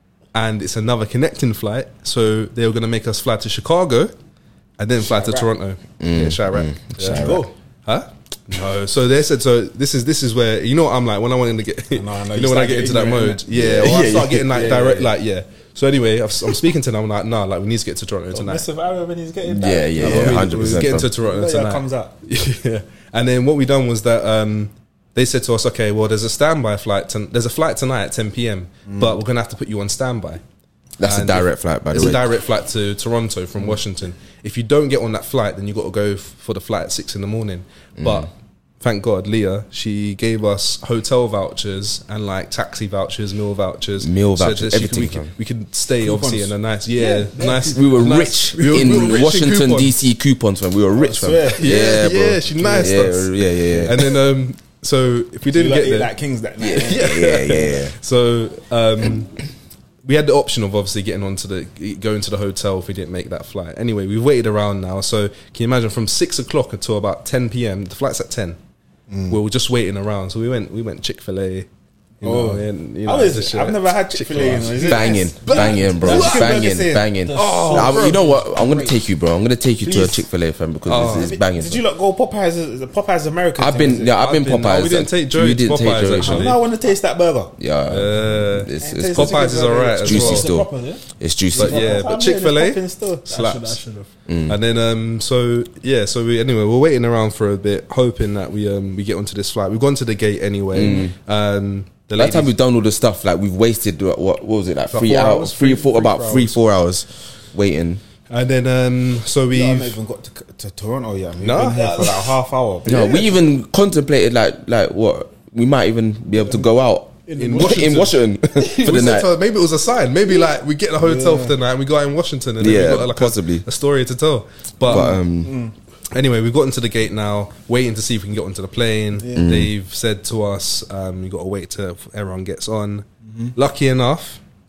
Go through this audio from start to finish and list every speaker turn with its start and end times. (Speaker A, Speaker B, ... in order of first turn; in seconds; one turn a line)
Speaker A: 0.3-4.1
Speaker A: 4.8-18.6
Speaker B: 5.0-5.5
Speaker C: 6.0-7.5
Speaker B: 7.0-7.5
Speaker B: 11.9-15.1
Speaker C: 13.5-14.0
Speaker B: 18.3-22.1
Speaker C: 19.5-21.1
Speaker A: 20.0-30.4
Speaker B: 28.9-29.1
Speaker C: 31.0-32.3
Speaker A: 31.0-49.9
Speaker C: 38.0-38.3
Speaker C: 44.0-45.3
Speaker B: 46.0-47.3
Speaker D: 47.0-48.2
Speaker C: 47.7-54.1
Speaker B: 50.9-51.9
Speaker A: 51.5-56.1
Speaker B: 52.6-52.9
Speaker B: 53.6-53.9
Speaker B: 55.5-57.6
Speaker C: 56.6-57.9
Speaker A: 56.8-59.4
Speaker A: 60.0-68.6
Speaker B: 69.1-69.4
Speaker A: 69.3-71.7
Speaker A: 72.2-75.1
Speaker B: 72.2-77.1
Speaker C: 74.7-81.8
Speaker D: 75.4-79.0
Speaker A: 77.3-78.2
Speaker B: 79.8-80.2
Speaker A: 80.9-81.3
Speaker B: 80.9-84.2
Speaker C: 83.6-86.5
Speaker A: 84.2-86.6
Speaker B: 86.2-87.5
Speaker C: 87.6-89.5
Speaker A: 87.9-90.5
Speaker B: 88.8-90.2
Speaker C: 90.0-90.7
Speaker D: 90.0-91.0
Speaker C: 91.2-91.9
Speaker B: 91.5-93.3
Speaker A: 91.5-93.8
Speaker D: 91.8-92.1
Speaker D: 93.3-94.1
Speaker C: 94.3-94.6
Speaker A: 94.5-102.5
Speaker C: 100.7-101.1
Speaker C: 102.2-108.0
Speaker A: 104.9-106.6
Speaker A: 108.3-110.0
Speaker B: 109.5-113.4
Speaker A: 111.4-112.4
Speaker C: 112.9-119.3
Speaker D: 117.3-119.2
Speaker A: 117.4-118.1
Speaker A: 118.7-125.1
Speaker B: 121.0-121.5
Speaker C: 122.6-123.6
Speaker C: 124.9-125.5
Speaker B: 124.9-125.7
Speaker A: 126.1-134.4
Speaker B: 129.2-129.5
Speaker C: 129.3-129.7